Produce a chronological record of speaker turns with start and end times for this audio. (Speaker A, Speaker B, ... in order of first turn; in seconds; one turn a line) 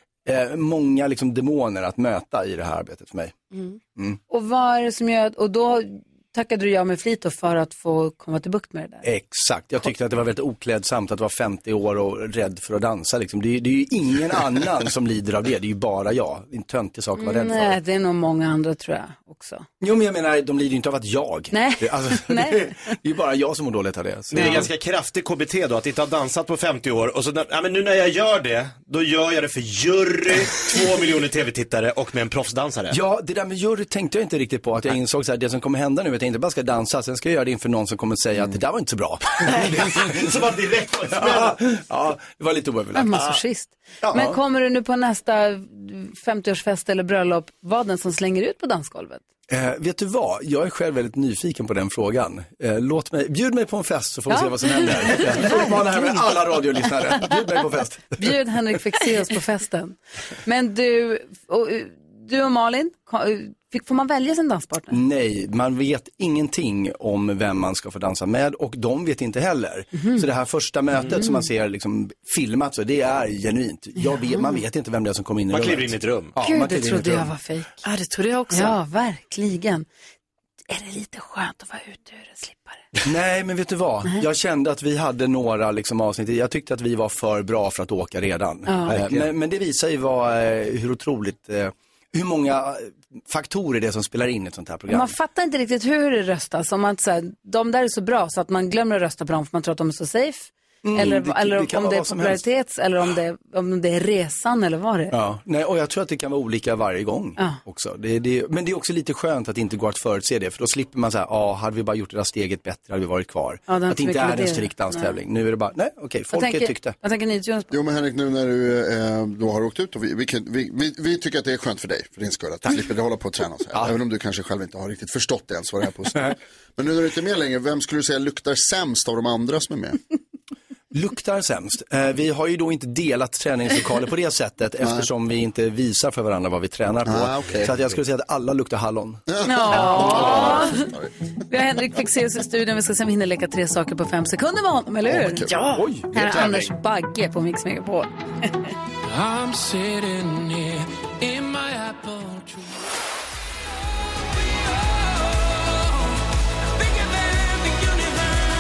Speaker A: 0.3-3.4
Speaker B: 4.3-9.1
Speaker A: 9.0-17.8
Speaker B: 17.2-19.6
Speaker A: 19.8-24.7
Speaker B: 21.5-22.7
Speaker C: 24.3-33.0
Speaker B: 24.3-24.7
Speaker A: 32.9-40.3
Speaker C: 39.5-41.6
Speaker A: 41.1-43.4
Speaker B: 42.9-49.2
Speaker A: 44.0-44.4
Speaker A: 49.5-58.3
Speaker B: 54.3-56.2
Speaker B: 58.2-65.0
Speaker A: 64.9-77.3
Speaker B: 70.0-70.3
Speaker B: 71.1-71.5
Speaker B: 74.0-74.6
Speaker C: 75.5-76.4
Speaker B: 76.4-77.8
Speaker D: 77.8-78.8
Speaker B: 78.5-79.9
Speaker B: 80.7-82.8
Speaker A: 83.1-95.2
Speaker B: 88.7-89.0
Speaker C: 88.9-89.3
Speaker B: 94.9-105.2
Speaker A: 100.8-102.4
Speaker A: 105.1-117.0
Speaker B: 113.7-115.2
Speaker B: 116.3-117.7
Speaker E: 117.7-130.0
Speaker A: 130.9-139.2
Speaker E: 134.8-135.1
Speaker E: 137.1-137.8
Speaker E: 139.3-141.1
Speaker B: 139.4-140.9
Speaker D: 139.7-140.5
Speaker B: 141.5-145.5
Speaker E: 145.1-145.6
Speaker D: 145.5-145.9
Speaker A: 145.7-146.1
Speaker B: 146.1-148.5
Speaker C: 146.2-146.7
Speaker F: 149.1-152.8
Speaker F: 156.8-158.1